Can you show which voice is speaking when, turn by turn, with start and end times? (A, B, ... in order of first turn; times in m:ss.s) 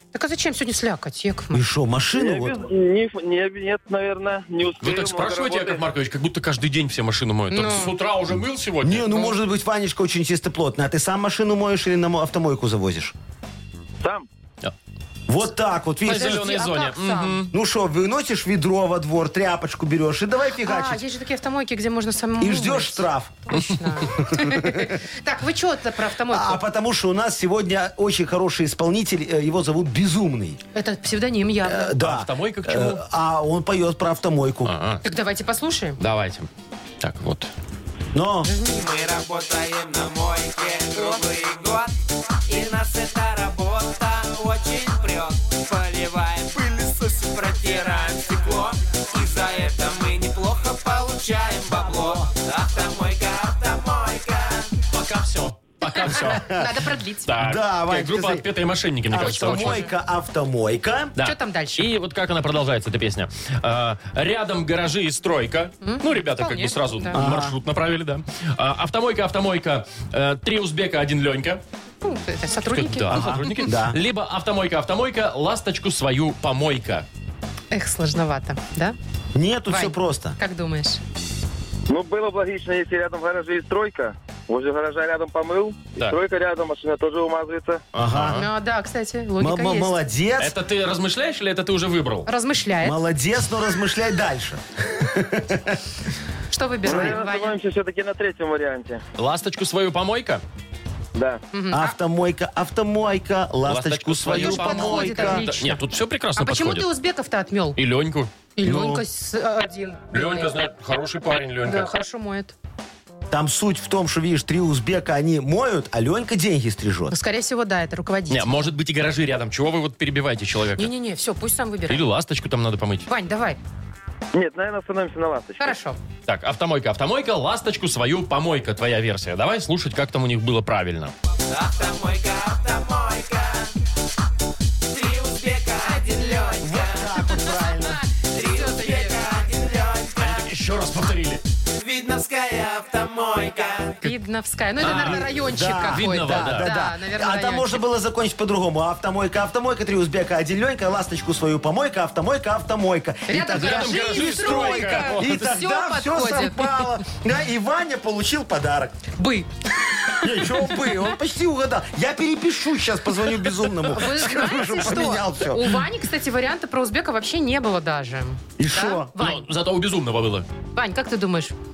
0:00.1-0:01.7 A
0:01.5-0:02.6 B
0:02.2-0:05.8 C
0:04.8-0:09.4 D
0:07.5-0:07.9 A
0:08.8-0:13.2 B
0:14.0-0:14.3 C
0:15.3-0:16.4 B
0:16.1-0:17.4 A
0:16.1-0:17.5 D
0:17.5-0:21.0 B
0:20.6-0:26.6 A
0:22.4-0:23.6 B
0:24.2-0:25.0 B
0:26.3-0:30.6 B
0:30.7-0:32.0 A
0:31.6-0:34.7 B
0:32.0-0:33.0 D
0:34.6-0:35.0 D
0:35.0-0:36.0 A
0:36.0-0:36.5 D
0:37.0-0:37.5 D
0:38.1-0:38.5 B
0:38.4-0:38.9 A
0:38.7-0:41.9 E
0:42.5-0:54.7 E
0:54.9-0:56.5 D
0:56.1-0:57.3 A
0:56.1-0:56.8 B
0:57.2-0:59.9 D
0:57.4-0:58.5 B
0:59.1-1:01.2 B
0:59.1-0:59.9 A
1:01.2-1:11.6 D
1:01.2-1:01.9 A
1:05.8-1:07.2 A
1:07.1-1:07.6 B
1:12.0-1:13.7 A
1:12.7-1:17.1 D
1:13.1-1:14.0 B
1:17.7-1:19.0 A
1:19.4-1:20.4 B
1:19.7-1:21.0 A
1:21.9-1:27.8 C
1:27.9-1:28.4 B
1:28.0-1:28.5 D
1:28.3-1:30.0 A
1:29.4-1:30.6 B
1:30.4-1:32.3 D
1:32.3-1:33.0 A
1:32.8-1:35.8 B
1:36.5-1:37.6 A
1:36.8-1:39.0 C
1:39.2-1:40.4 D
1:41.1-1:41.4 C
1:41.5-1:42.0 A
1:41.7-1:45.4 B
1:43.7-1:46.9 D
1:44.3-1:45.8 A
1:46.4-1:47.8 A
1:47.8-1:48.3 D
1:48.6-1:50.5 A
1:48.6-1:49.0 B
1:50.1-1:51.9 D
1:51.6-1:52.5 A
1:53.3-1:57.1 B
1:57.1-1:58.7 A
1:58.3-2:00.9 D
2:00.8-2:02.0 A
2:01.9-2:03.1 D
2:03.1-2:03.6 A
2:04.3-2:05.8 C
2:05.6-2:06.0 A
2:06.3-2:11.1 D
2:11.5-2:13.7 E
2:14.9-2:17.1 E
2:16.6-2:18.0 B
2:17.2-2:19.2 A
2:18.3-2:20.5 E
2:20.2-2:21.4 D
2:21.7-2:24.0 E
2:24.0-2:27.8 A
2:24.8-2:26.7 D
2:24.8-2:39.0 B
2:33.3-2:36.9 A
2:33.5-2:35.4 D
2:39.2-2:39.5 A
2:40.1-2:40.7 A
2:40.2-2:45.8 B
2:43.9-2:49.4 A
2:48.6-2:49.1 B
2:49.2-2:50.5 D
2:50.8-2:51.6 A